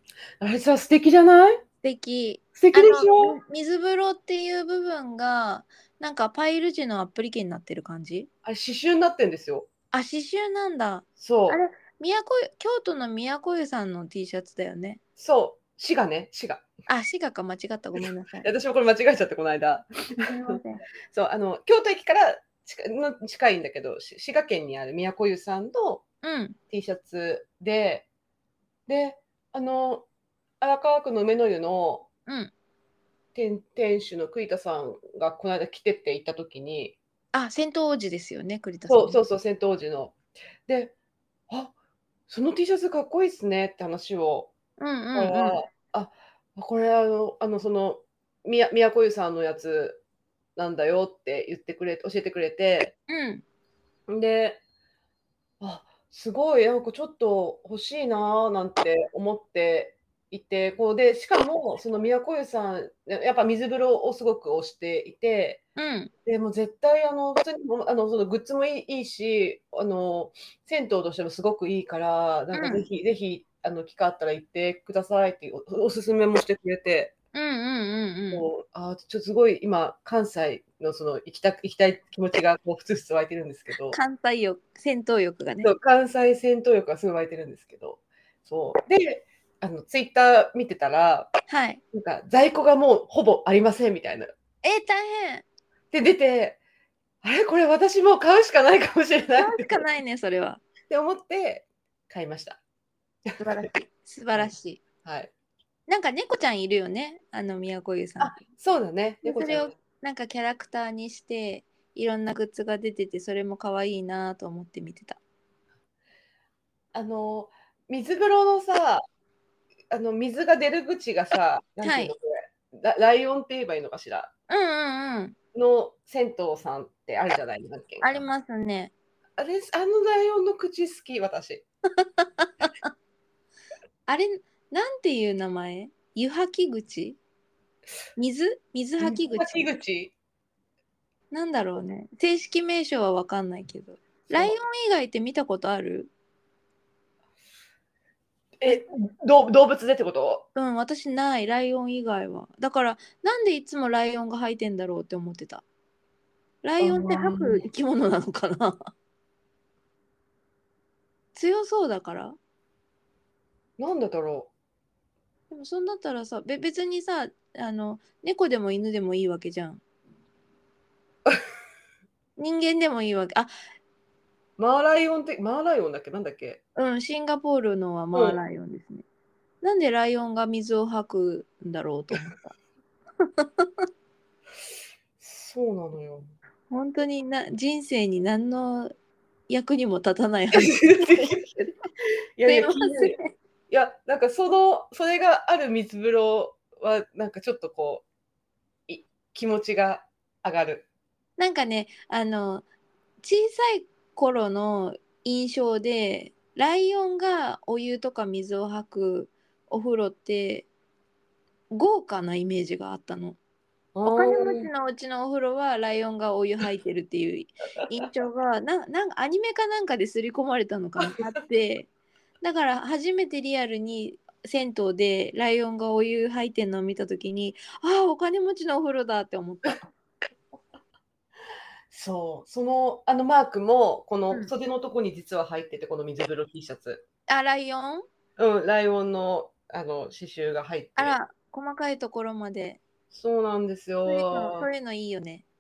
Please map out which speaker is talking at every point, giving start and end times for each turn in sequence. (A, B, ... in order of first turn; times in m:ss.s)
0:00.4-0:01.6 A
0:01.8-0:08.3 B
0:02.6-0:03.4 A
0:08.4-0:09.7 A
0:09.9-0:15.0 B
0:11.2-0:11.6 A
0:15.2-0:16.6 A
0:16.9-0:18.5 B
0:18.4-0:20.6 A
0:20.2-0:20.8 B
0:21.1-0:26.0 A
0:26.2-0:26.6 B
0:26.7-0:28.1 A
0:28.9-0:30.1 A
0:30.6-0:32.1 A
0:32.3-0:32.5 B
0:33.3-0:37.0 A
0:37.3-0:39.2 B
0:38.9-0:40.2 A
0:40.7-0:40.9 A
0:41.5-0:41.7 A
0:42.3-0:44.5 A
0:44.8-0:45.6 B
0:45.1-0:50.0 A
0:50.6-0:52.9 A
0:53.1-0:53.4 B
0:54.1-0:54.6 A
0:55.6-1:05.6 A
1:05.8-1:06.1 B
1:06.2-1:17.1 A
1:12.5-1:12.9 B
1:17.3-1:18.5 B
1:18.3-1:24.0 A
1:23.9-1:25.7 B
1:25.6-1:31.3 A
1:31.5-1:31.8 B
1:31.9-1:34.3 A
1:34.6-1:35.4 B
1:35.9-1:36.6 A
1:37.2-1:39.8 A
1:39.4-1:40.6 B
1:40.9-1:42.6 A
1:43.3-1:43.6 A
1:43.4-1:44.8 B
1:45.0-1:45.3 A
1:45.9-1:48.4 B
1:48.2-1:49.7 A
1:49.2-1:55.2 B
1:56.9-1:59.0 A
1:59.9-2:04.3 A
2:01.8-2:02.1 B
2:04.5-2:05.4 B
2:05.5-2:08.2 A
2:08.0-2:08.9 B
2:09.4-2:11.6 A
2:12.2-2:12.8 B
2:14.0-2:17.2 B
2:18.2-2:19.7 B
2:19.0-2:20.1 A
2:21.3-2:26.1 B
2:24.3-2:24.5 A
2:28.6-2:30.4 A
2:30.5-2:35.6 B
2:36.6-2:38.9 B
2:36.8-2:37.6 A
2:41.3-2:42.4 B
2:43.8-2:44.5 A
2:45.5-2:49.8 B
2:52.4-2:53.5 B
2:54.6-2:56.6 A
2:56.8-2:59.0 B
2:58.1-2:58.4 A
2:59.6-3:02.6 B
3:03.4-3:03.7 B
3:05.2-3:06.3 A
3:06.7-3:08.9 B
3:09.5-3:11.4 B
3:10.5-3:11.6 A
3:12.4-3:13.2 A
3:12.5-3:13.2 B
3:13.7-3:18.0 A
3:18.9-3:20.8 A
3:21.4-3:22.6 B
3:23.2-3:30.7 B
3:31.7-3:33.4 B
3:33.9-3:34.7 A
3:34.0-3:41.9 B
3:42.4-3:49.9 B
3:51.9-3:57.0 A
3:57.3-3:58.0 B
3:58.4-4:01.2 A
4:01.0-4:02.8 B
4:03.1-4:04.7 A
4:04.0-4:05.4 B